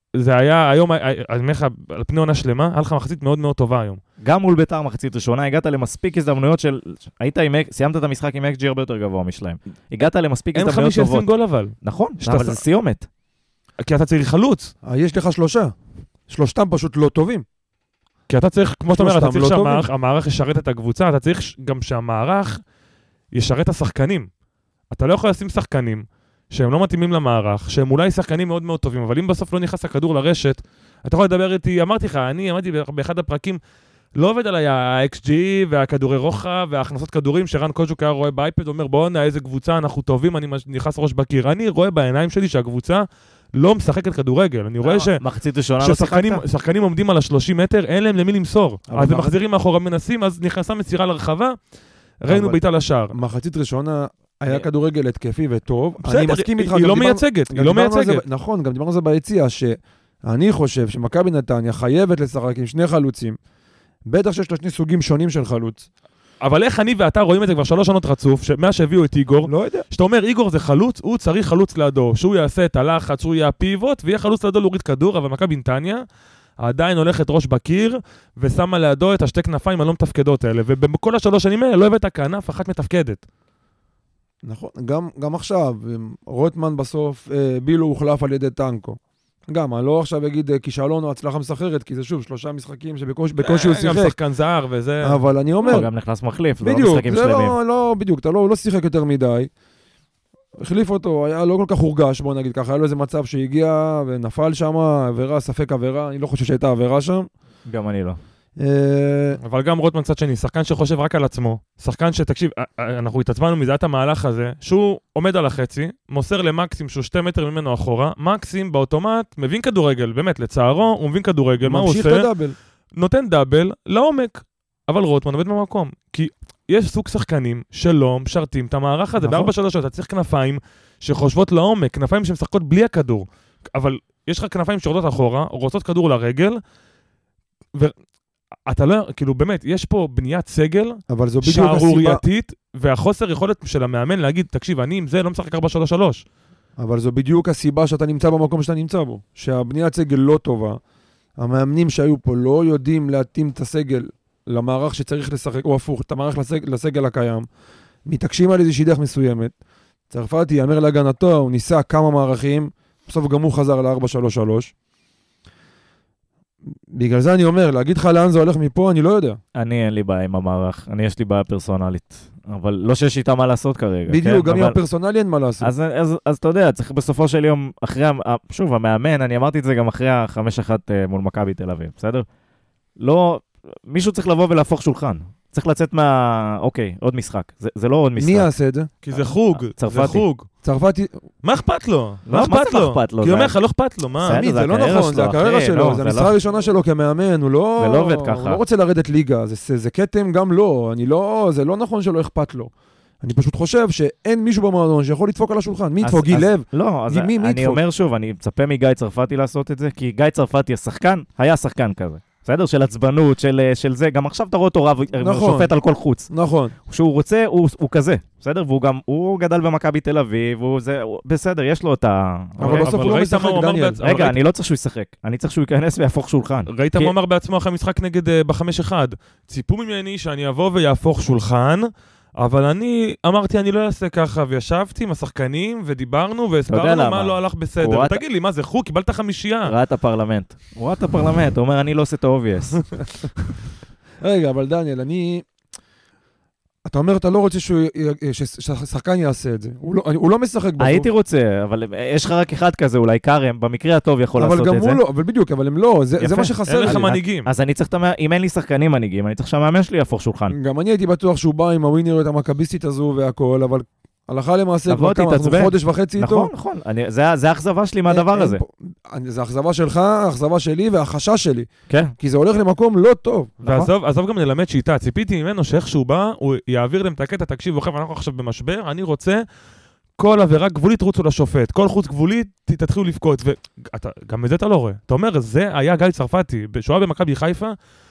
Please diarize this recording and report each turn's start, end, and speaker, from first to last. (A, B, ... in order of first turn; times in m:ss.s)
0:00.1-0:04.0 A
0:04.2-0:13.1 B
0:10.5-0:12.6 A
0:13.8-0:14.7 A
0:14.8-0:15.7 C
0:16.3-0:17.4 C
0:18.3-0:22.6 A
0:18.9-0:19.9 C
0:23.3-0:24.3 A
0:24.9-0:33.6 A
0:34.2-0:45.2 A
0:44.8-0:46.4 B
0:45.8-0:51.6 A
0:48.9-0:49.3 C
0:52.2-0:53.1 A
0:52.3-0:52.6 C
0:53.1-1:03.4 C
0:56.0-0:58.2 A
1:04.1-1:05.8 C
1:06.4-1:16.0 A
1:09.4-1:09.8 C
1:16.6-1:23.2 A
1:24.4-1:34.2 C
1:33.4-1:35.2 A
1:35.0-1:35.9 C
1:35.6-1:37.6 B
1:36.6-1:39.5 C
1:40.6-1:47.3 C
1:47.7-1:48.2 B
1:48.6-1:49.4 C
1:49.4-2:02.3 A
2:01.6-2:02.6 C
2:03.0-2:16.6 A
2:09.2-2:09.5 C
2:18.7-2:26.2 A
2:21.1-2:22.2 C
2:26.8-2:30.8 C
2:31.4-2:37.4 C
2:38.1-2:39.5 C
2:40.1-2:44.7 C
2:46.9-2:49.4 C
2:49.6-2:54.8 B
2:54.1-2:55.7 C
2:55.6-3:02.2 B
3:03.0-3:08.5 B
3:08.2-3:08.9 C
3:09.0-3:10.5 A
3:09.1-3:10.2 B
3:10.6-3:11.2 C
3:11.4-3:14.4 A
3:12.3-3:13.6 B
3:14.2-3:16.3 B
3:14.3-3:22.7 C
3:17.8-3:18.6 B
3:23.2-3:27.8 C
3:26.0-3:36.3 B
3:35.2-3:35.7 C
3:36.3-3:36.7 C
3:36.9-3:42.9 B
3:42.6-3:44.0 C
3:42.7-3:44.4 A
3:44.0-3:47.1 B
3:46.7-3:59.8 A
3:56.7-3:58.2 B
3:59.6-4:02.8 B
4:04.2-4:05.4 C
4:06.8-4:11.1 C
4:10.8-4:15.0 B
4:14.4-4:17.2 C
4:16.2-4:20.5 B
4:16.7-4:17.5 A
4:20.5-4:26.5 C
4:24.9-4:28.6 B
4:28.1-4:31.7 C
4:31.9-4:32.1 B
4:32.2-4:33.6 C
4:33.6-4:33.9 B
4:33.6-4:39.4 A
4:40.2-4:47.7 A